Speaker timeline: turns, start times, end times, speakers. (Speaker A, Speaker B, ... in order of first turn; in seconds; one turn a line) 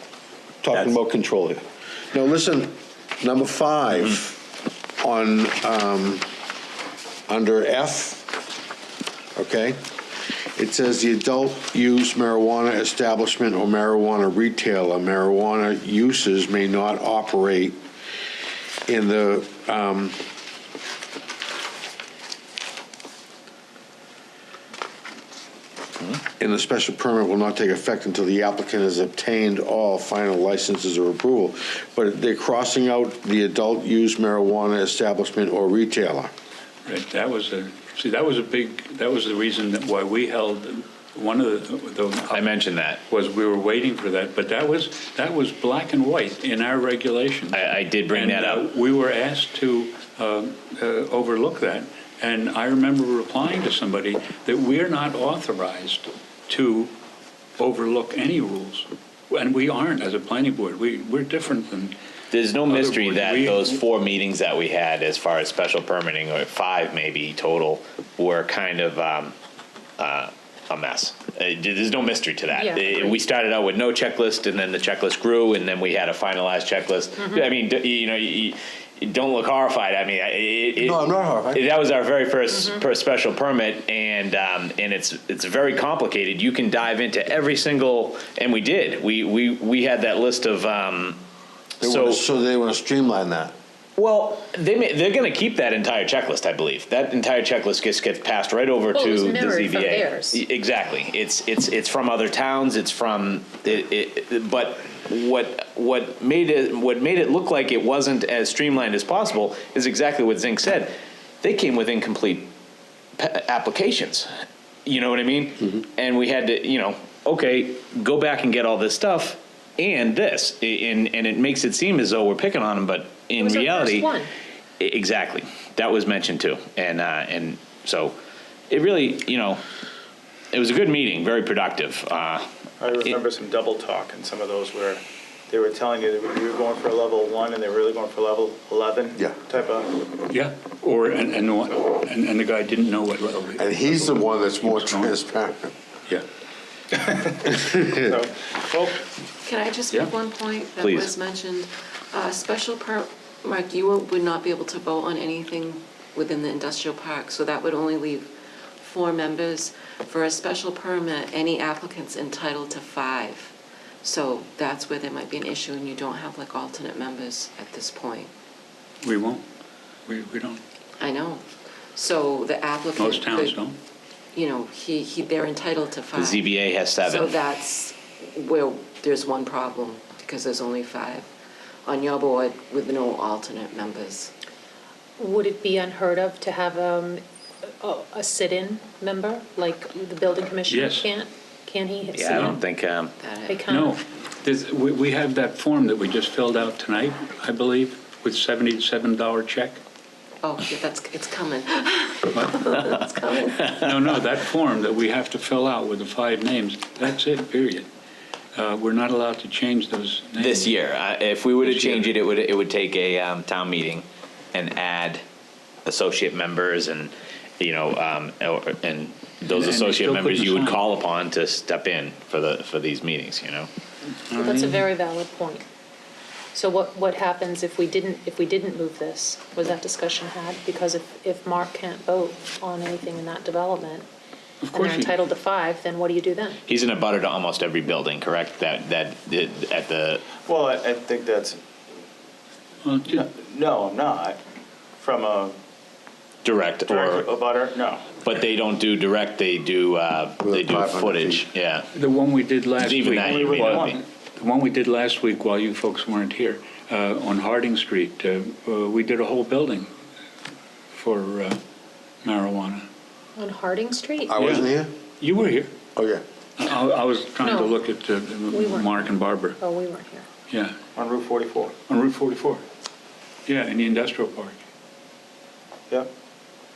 Speaker A: 0.6-4.5
Speaker A: 5.0-6.2
Speaker A: 7.3-8.3
Speaker A: 9.3-9.8
Speaker A: 10.6-17.8
Speaker A: 18.9-20.2
Speaker A: 26.4-36.3
Speaker B: 36.9-42.4
Speaker C: 42.3-43.0
Speaker B: 43.1-47.6
Speaker C: 47.5-48.7
Speaker B: 48.1-56.9
Speaker B: 57.6-61.9
Speaker C: 62.3-69.3
Speaker B: 62.7-63.8
Speaker C: 70.0-91.2
Speaker D: 72.6-73.2
Speaker A: 80.8-81.6
Speaker A: 91.8-93.5
Speaker C: 91.8-92.2
Speaker C: 94.0-112.5
Speaker D: 98.9-100.4
Speaker C: 113.2-114.3
Speaker C: 114.8-124.2
Speaker D: 123.4-124.3
Speaker C: 124.8-128.1
Speaker C: 128.7-129.6
Speaker C: 130.5-132.5
Speaker E: 132.8-139.9
Speaker B: 140.3-145.1
Speaker A: 143.6-145.7
Speaker E: 147.0-147.4
Speaker A: 147.5-148.0
Speaker E: 148.0-148.9
Speaker F: 149.4-168.3
Speaker C: 150.8-151.1
Speaker B: 169.0-169.4
Speaker B: 170.1-170.6
Speaker F: 171.0-173.6
Speaker B: 172.9-173.8
Speaker F: 174.3-181.3
Speaker C: 176.1-177.3
Speaker F: 181.8-184.3
Speaker D: 185.2-187.2
Speaker D: 187.8-192.6
Speaker B: 190.7-191.1
Speaker C: 192.1-193.1
Speaker F: 193.2-193.7
Speaker D: 193.5-194.0
Speaker B: 193.7-199.8
Speaker F: 200.4-203.8
Speaker B: 203.7-207.8
Speaker B: 208.5-210.7
Speaker C: 210.4-215.2
Speaker B: 211.6-212.1
Speaker C: 215.8-223.7
Speaker B: 219.5-220.8
Speaker B: 224.3-224.9
Speaker D: 224.4-225.6
Speaker D: 226.5-234.1
Speaker B: 234.6-235.3
Speaker D: 234.7-236.6
Speaker C: 236.7-240.2
Speaker E: 240.4-241.6
Speaker B: 242.8-243.2
Speaker E: 243.1-244.4
Speaker E: 245.0-245.6
Speaker C: 246.4-247.3
Speaker E: 246.9-248.2
Speaker C: 248.2-251.8
Speaker A: 250.4-251.4
Speaker B: 251.9-259.9
Speaker C: 252.8-254.0
Speaker B: 260.9-261.6
Speaker B: 262.2-262.9
Speaker D: 263.4-264.4
Speaker A: 264.3-264.9
Speaker B: 264.4-264.7
Speaker B: 265.2-265.7
Speaker A: 265.9-266.2
Speaker B: 266.6-269.6
Speaker D: 267.4-267.8
Speaker D: 268.5-269.1
Speaker D: 269.6-270.3
Speaker B: 270.5-270.8
Speaker E: 270.9-271.7
Speaker B: 271.9-272.6
Speaker B: 273.5-274.6